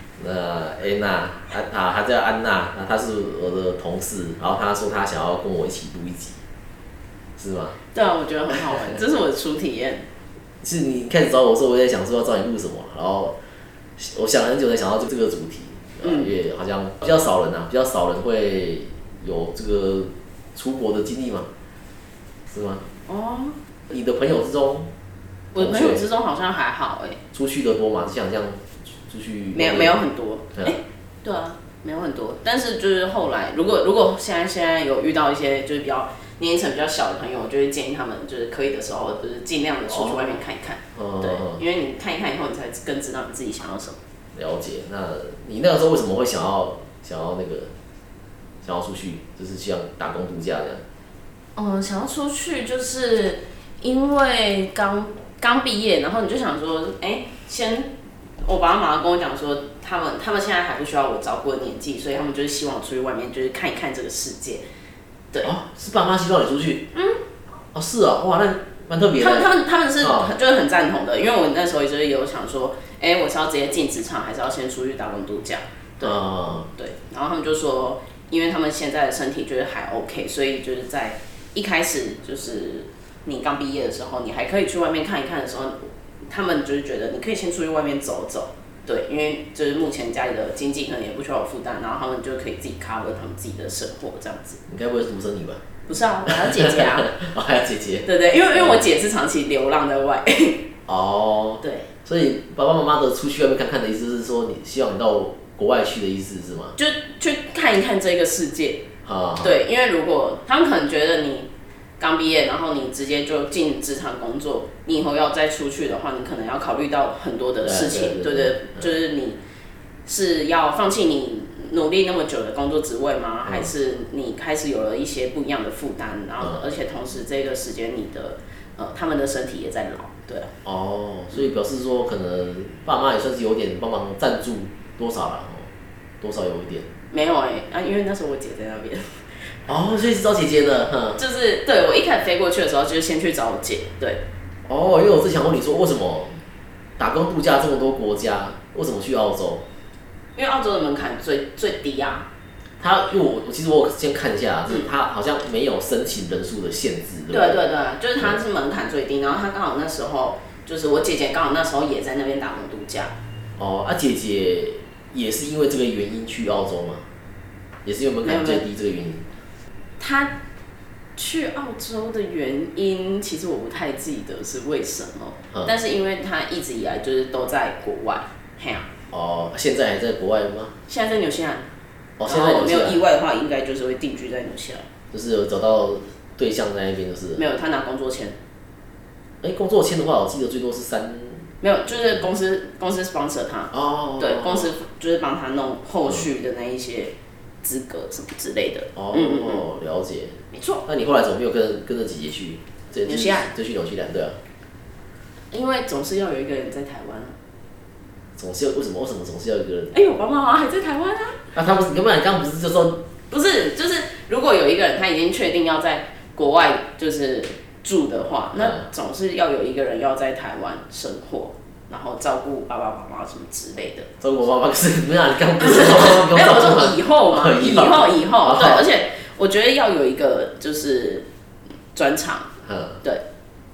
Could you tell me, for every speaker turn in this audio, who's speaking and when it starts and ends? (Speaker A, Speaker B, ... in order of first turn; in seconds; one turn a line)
Speaker A: 0.2-6.4
Speaker A: 7.4-7.8
Speaker B: 7.9-10.1
Speaker A: 10.6-13.3
Speaker A: 14.0-21.5
Speaker B: 16.0-16.3
Speaker A: 22.5-22.8
Speaker B: 23.1-23.6
Speaker A: 23.9-24.9
Speaker B: 25.5-27.2
Speaker A: 25.6-26.0
Speaker A: 27.3-30.0
Speaker B: 29.5-44.0
Speaker A: 39.9-40.3
Speaker A: 40.9-41.6
Speaker A: 44.3-47.7
Speaker A: 48.6-50.8
Speaker B: 51.5-64.6
Speaker A: 65.4-66.8
Speaker B: 66.9-67.2
Speaker A: 67.7-70.3
Speaker B: 69.2-76.2
Speaker A: 76.0-76.7
Speaker B: 76.8-94.6
Speaker A: 94.7-95.6
Speaker B: 95.9-97.1
Speaker A: 96.3-98.8
Speaker B: 98.0-100.6
Speaker A: 100.9-106.8
Speaker B: 101.6-101.9
Speaker B: 106.8-108.8
Speaker A: 109.0-109.5
Speaker B: 109.4-119.4
Speaker A: 117.6-118.8
Speaker B: 120.0-130.5
Speaker A: 130.6-135.7
Speaker A: 136.2-136.9
Speaker B: 137.1-139.5
Speaker A: 139.7-141.2
Speaker B: 141.2-144.2
Speaker A: 144.7-146.4
Speaker A: 147.0-149.6
Speaker B: 150.3-152.3
Speaker A: 152.8-157.6
Speaker B: 157.3-163.1
Speaker A: 163.6-167.1
Speaker A: 167.8-169.3
Speaker B: 168.2-168.6
Speaker B: 170.0-170.4
Speaker B: 171.2-178.9
Speaker A: 179.1-180.7
Speaker B: 180.9-181.7
Speaker A: 182.2-183.0
Speaker B: 182.2-184.9
Speaker A: 185.1-187.4
Speaker B: 187.4-188.4
Speaker A: 189.4-191.5
Speaker B: 191.6-199.6
Speaker A: 193.7-194.7
Speaker A: 198.9-204.4
Speaker B: 200.5-200.8
Speaker B: 203.0-203.5
Speaker B: 205.5-207.4
Speaker A: 208.4-209.9
Speaker B: 209.9-211.4
Speaker A: 211.5-213.1
Speaker B: 213.3-224.1
Speaker A: 224.2-228.8
Speaker B: 225.6-231.2
Speaker B: 231.9-232.5
Speaker A: 232.6-233.0